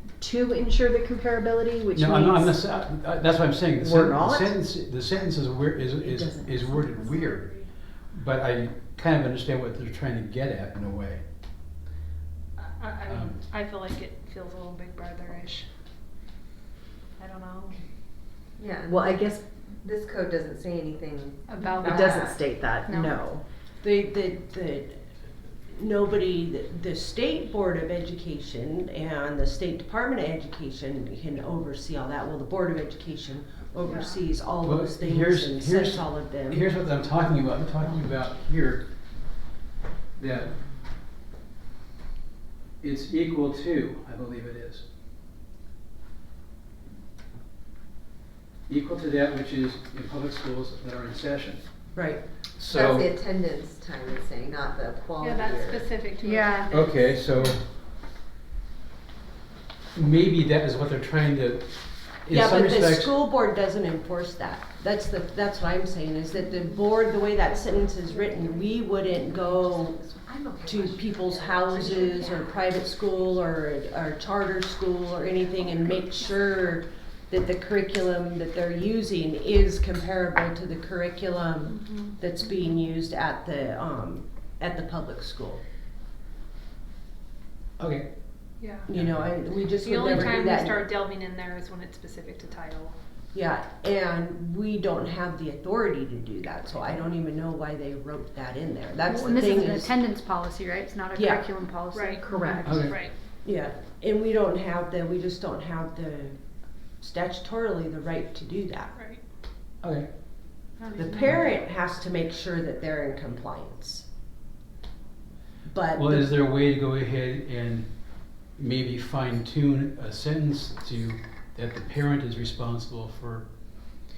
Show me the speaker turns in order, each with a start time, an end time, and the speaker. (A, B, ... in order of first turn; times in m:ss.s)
0:00.2-0:02.6 A
0:01.9-0:11.2 B
0:03.8-0:04.6 A
0:06.0-0:07.1 A
0:07.0-0:07.7 C
0:12.6-0:15.7 D
0:13.0-0:13.4 B
0:17.2-0:17.8 D
0:18.6-0:22.4 E
0:18.8-0:19.4 A
0:21.5-0:22.3 D
0:21.8-0:23.4 A
0:22.8-0:23.2 C
0:23.8-0:25.0 F
0:25.7-0:36.7 F
0:33.8-0:34.2 D
0:34.6-0:38.8 B
0:40.2-0:40.6 B
0:42.8-0:44.8 B
0:48.7-0:51.8 B
0:51.9-0:52.2 F
0:52.5-0:53.1 B
0:52.7-0:56.0 E
0:55.2-0:57.5 D
0:56.2-0:56.8 C
0:56.7-0:57.6 B
0:59.9-1:03.2 B
1:02.3-1:10.0 F
1:09.5-1:12.6 E
1:10.6-1:25.6 F
1:21.7-1:22.2 D
1:27.8-1:28.1 B
1:28.6-1:28.9 D
1:28.9-1:30.8 F
1:28.9-1:29.3 B
1:29.8-1:32.9 D
1:33.3-1:39.9 F
1:39.0-1:42.9 C
1:41.2-1:41.5 F
1:41.9-1:43.1 D
1:42.3-1:42.9 A
1:42.6-1:43.0 B
1:43.4-1:46.4 F
1:47.0-1:48.9 F
1:48.9-1:49.2 D
1:49.8-1:50.1 B
1:50.8-1:51.5 D
1:50.9-1:54.0 F
1:55.6-1:56.3 F
1:55.9-2:03.5 B